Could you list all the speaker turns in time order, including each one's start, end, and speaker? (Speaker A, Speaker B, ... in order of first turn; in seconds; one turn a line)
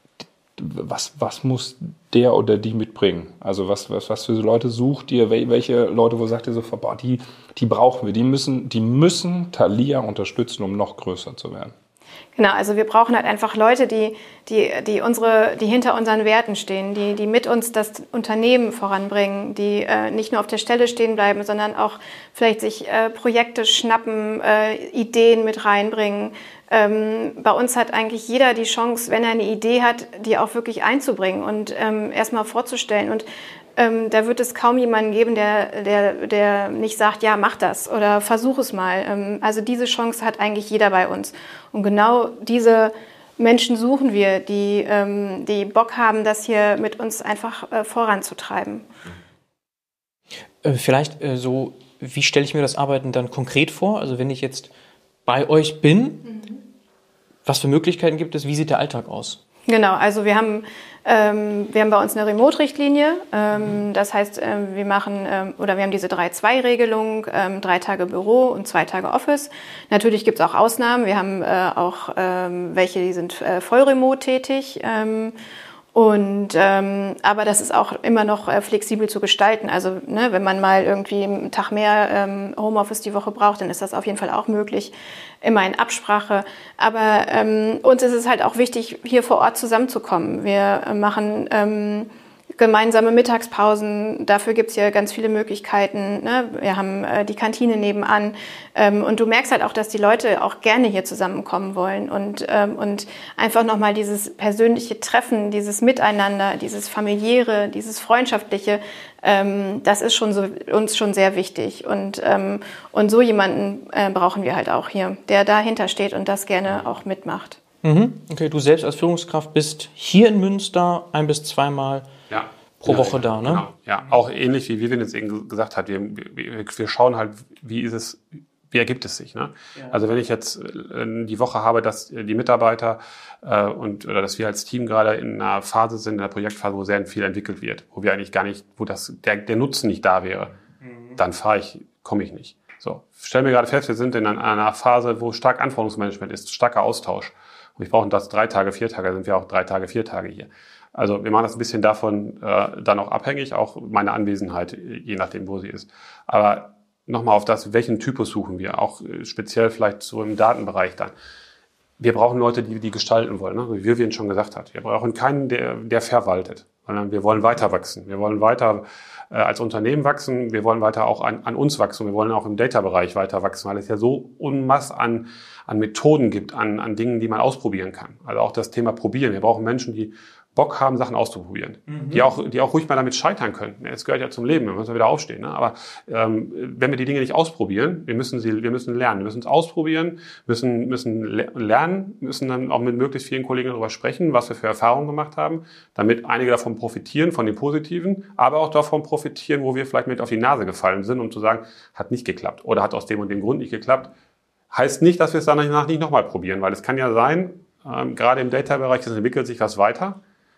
Speaker A: 0.6-11.7
Speaker B: 12.4-33.2
Speaker B: 33.8-48.9
Speaker C: 50.6-54.7
Speaker C: 55.3-56.3
Speaker B: 56.3-56.6
Speaker C: 57.5-59.4
Speaker B: 59.7-75.3
Speaker B: 75.9-117.6
Speaker C: 117.8-122.1
Speaker D: 122.3-140.6
Speaker C: 122.8-123.7
Speaker C: 140.8-141.2
Speaker D: 141.2-161.1
Speaker D: 162.0-204.1
Speaker C: 181.9-182.3
Speaker D: 204.7-210.2